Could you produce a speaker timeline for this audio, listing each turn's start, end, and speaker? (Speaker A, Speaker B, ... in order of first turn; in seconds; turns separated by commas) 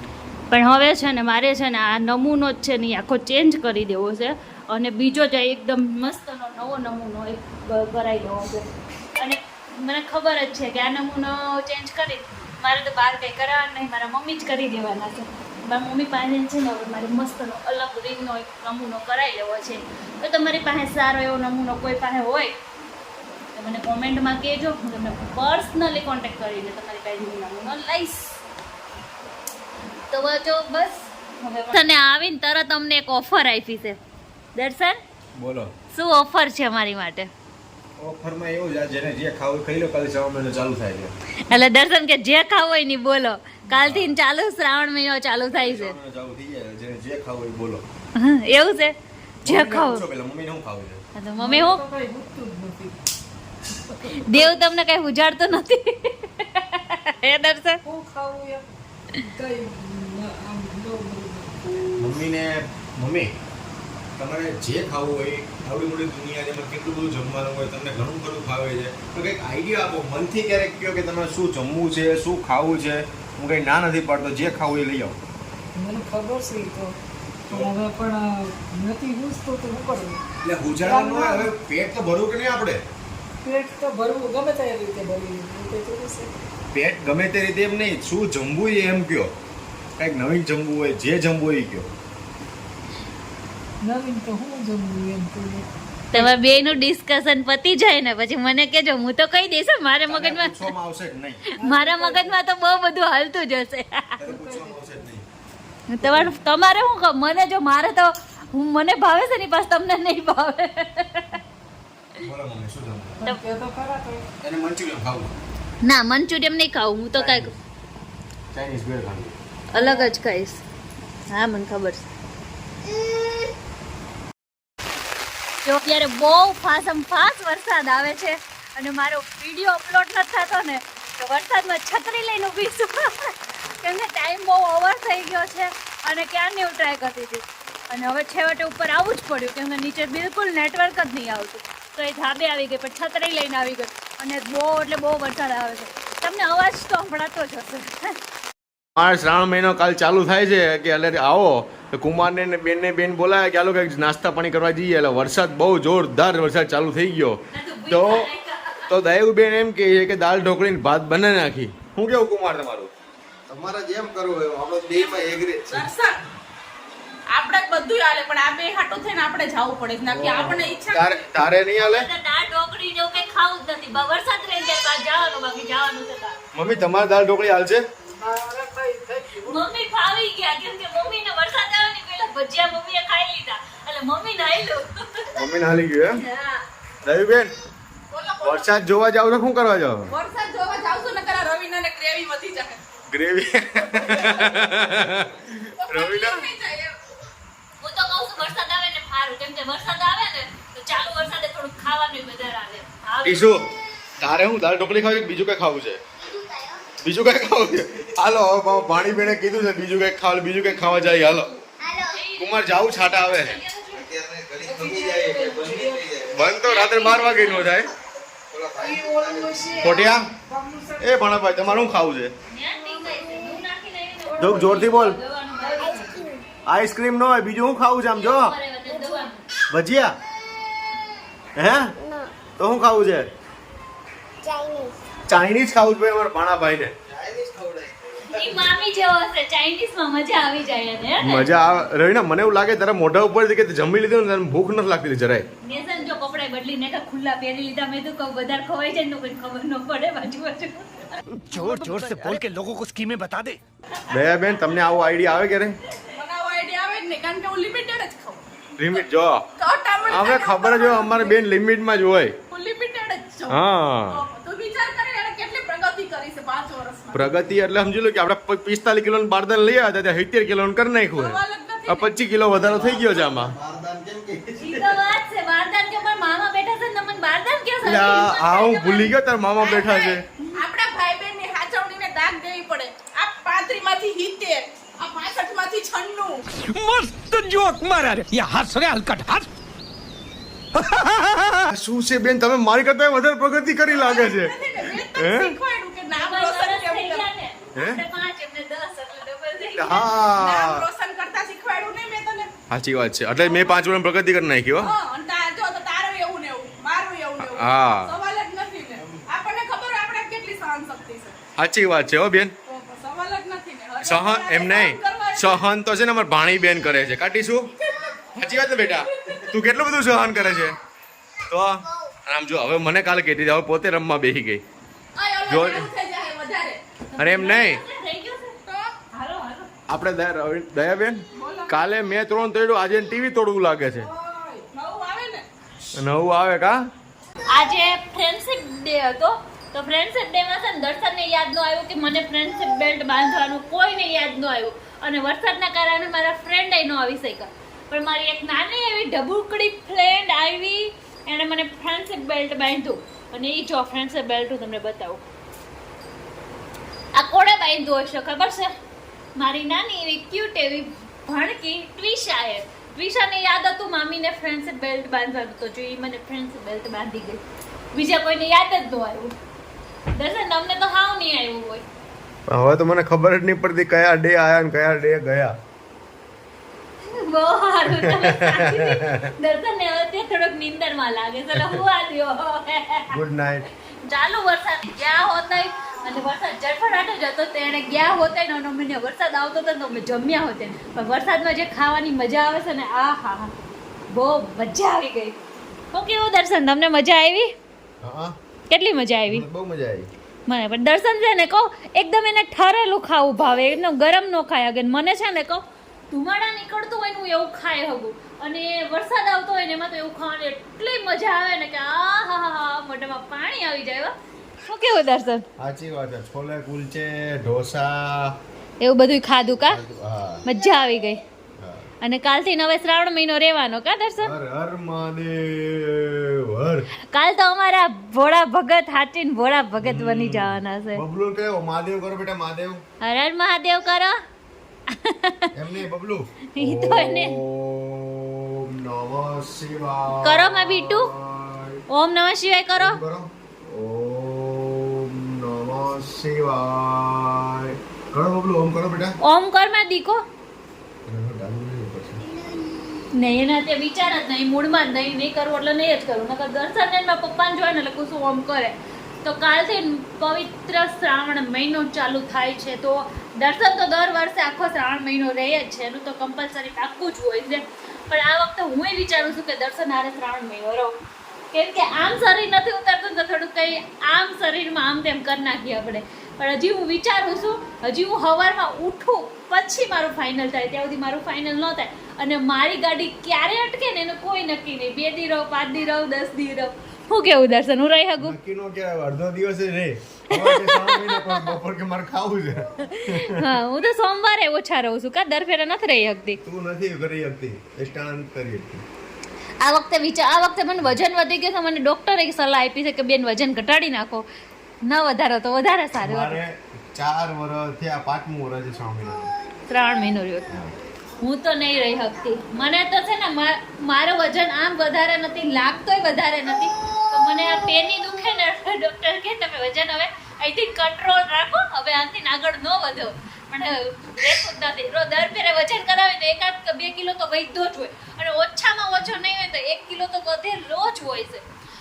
Speaker A: 0.5-8.7, Speaker A: 9.2-22.5, Speaker A: 23.6-28.3, Speaker A: 30.1-34.0, Speaker A: 34.5-35.0, Speaker B: 35.4-35.7, Speaker A: 35.9-37.3, Speaker B: 38.0-41.1, Speaker A: 41.5-46.0, Speaker B: 43.8-44.1, Speaker B: 45.5-47.8, Speaker A: 48.2-50.0, Speaker B: 49.4-51.0, Speaker A: 51.1-51.8, Speaker C: 51.4-53.0, Speaker C: 53.7-54.2, Speaker A: 54.0-57.8, Speaker C: 57.8-62.1, Speaker B: 61.9-63.3, Speaker B: 64.2-75.2, Speaker C: 75.8-77.0, Speaker C: 77.5-80.2, Speaker B: 77.5-77.8, Speaker B: 80.4-82.8, Speaker C: 80.8-81.5, Speaker C: 83.4-86.3, Speaker B: 86.7-89.3, Speaker B: 90.0-91.9, Speaker C: 93.8-96.5, Speaker A: 96.1-100.7, Speaker B: 100.1-101.4, Speaker C: 101.6-102.4, Speaker A: 101.6-104.2, Speaker B: 104.2-105.2, Speaker C: 104.2-104.8, Speaker A: 105.9-111.4, Speaker B: 112.2-113.2, Speaker C: 113.2-114.3, Speaker B: 114.4-115.3, Speaker A: 115.8-117.5, Speaker B: 117.2-117.5, Speaker B: 118.5-119.3, Speaker A: 119.7-120.6, Speaker C: 119.8-120.1, Speaker A: 121.3-122.1, Speaker A: 125.6-148.1, Speaker B: 148.9-157.4, Speaker A: 157.5-158.9, Speaker B: 157.9-158.3, Speaker B: 158.9-162.9, Speaker D: 163.5-165.7, Speaker E: 164.9-166.2, Speaker E: 167.3-171.3, Speaker B: 170.1-172.1, Speaker A: 171.8-176.4, Speaker B: 176.5-177.8, Speaker C: 178.1-179.6, Speaker A: 179.4-185.4, Speaker B: 185.3-186.2, Speaker A: 186.1-186.6, Speaker B: 187.0-187.6, Speaker E: 188.1-188.9, Speaker B: 188.4-190.1, Speaker E: 190.1-192.8, Speaker B: 193.1-196.5, Speaker E: 194.0-194.8, Speaker E: 195.8-197.0, Speaker A: 197.8-203.5, Speaker B: 203.2-206.0, Speaker D: 206.2-206.9, Speaker B: 207.0-211.6, Speaker A: 212.1-214.1, Speaker B: 212.4-213.6, Speaker D: 214.1-216.2, Speaker C: 214.6-216.3, Speaker B: 216.2-217.9, Speaker A: 216.4-217.9, Speaker D: 218.5-219.6, Speaker C: 218.7-221.8, Speaker B: 219.8-220.3, Speaker B: 221.0-222.3, Speaker A: 222.5-226.3, Speaker B: 224.4-225.2, Speaker D: 225.8-226.4, Speaker B: 226.6-228.6, Speaker A: 228.1-229.4, Speaker B: 229.7-230.2, Speaker B: 231.6-232.0, Speaker D: 232.0-232.3, Speaker B: 232.6-233.3, Speaker D: 234.4-235.0, Speaker B: 235.3-238.7, Speaker A: 238.3-241.5, Speaker B: 241.2-245.5, Speaker A: 245.6-251.2, Speaker F: 251.4-253.6, Speaker B: 254.1-255.8, Speaker E: 256.1-259.0, Speaker B: 258.8-259.4, Speaker E: 259.6-261.4, Speaker B: 260.1-262.4, Speaker E: 262.5-267.3, Speaker B: 263.5-264.2, Speaker B: 267.1-273.6, Speaker E: 271.1-272.1, Speaker D: 272.6-274.5, Speaker A: 274.6-278.6, Speaker B: 274.6-275.0, Speaker B: 277.8-280.2, Speaker E: 278.2-286.4, Speaker F: 286.6-289.5, Speaker F: 290.8-291.6, Speaker B: 291.7-294.5, Speaker E: 293.9-297.2, Speaker B: 295.1-295.6, Speaker A: 296.1-300.1, Speaker B: 297.8-298.0, Speaker B: 299.8-300.9, Speaker E: 300.4-302.5, Speaker B: 302.7-304.9, Speaker E: 303.4-303.8, Speaker E: 304.8-311.4, Speaker B: 307.4-308.1, Speaker B: 311.6-312.5, Speaker E: 312.7-315.6, Speaker B: 314.0-317.7, Speaker E: 317.9-319.6, Speaker B: 318.4-320.8, Speaker B: 321.4-324.6, Speaker E: 325.2-326.8, Speaker B: 325.5-325.9, Speaker A: 327.1-328.6, Speaker B: 327.2-327.8, Speaker E: 328.7-328.9, Speaker A: 329.1-329.7, Speaker B: 329.9-334.1, Speaker E: 331.3-332.0, Speaker E: 334.0-335.4, Speaker B: 335.9-336.8, Speaker A: 337.5-355.2, Speaker A: 357.1-358.7, Speaker A: 359.4-367.4, Speaker A: 367.9-369.4, Speaker A: 370.1-371.8, Speaker B: 372.5-375.6, Speaker A: 377.0-383.2, Speaker B: 377.9-379.3, Speaker B: 381.5-381.8, Speaker B: 383.1-383.7, Speaker A: 384.0-393.5, Speaker A: 394.1-395.4, Speaker A: 395.9-397.5, Speaker B: 398.0-398.4, Speaker A: 398.7-399.4, Speaker B: 399.3-400.1, Speaker A: 400.5-414.1, Speaker A: 414.6-415.4, Speaker B: 415.6-418.4, Speaker A: 418.8-419.8, Speaker B: 419.6-420.4, Speaker A: 420.4-421.2, Speaker B: 421.6-421.9, Speaker A: 422.0-424.3, Speaker B: 424.2-426.9, Speaker A: 427.1-431.0, Speaker B: 429.8-432.8, Speaker A: 433.0-434.2, Speaker A: 434.9-435.5, Speaker B: 435.5-441.8, Speaker A: 436.6-437.4, Speaker A: 440.2-441.1, Speaker A: 441.9-443.0, Speaker B: 442.7-449.2, Speaker A: 449.2-450.2, Speaker B: 451.1-452.2, Speaker A: 453.1-470.9, Speaker A: 471.5-488.4, Speaker B: 488.2-493.6, Speaker A: 490.3-491.5, Speaker A: 492.8-496.4, Speaker B: 496.4-498.8, Speaker A: 499.6-504.3, Speaker A: 504.8-506.4, Speaker B: 505.9-509.3, Speaker A: 509.7-510.6, Speaker B: 510.5-510.7, Speaker A: 511.2-531.4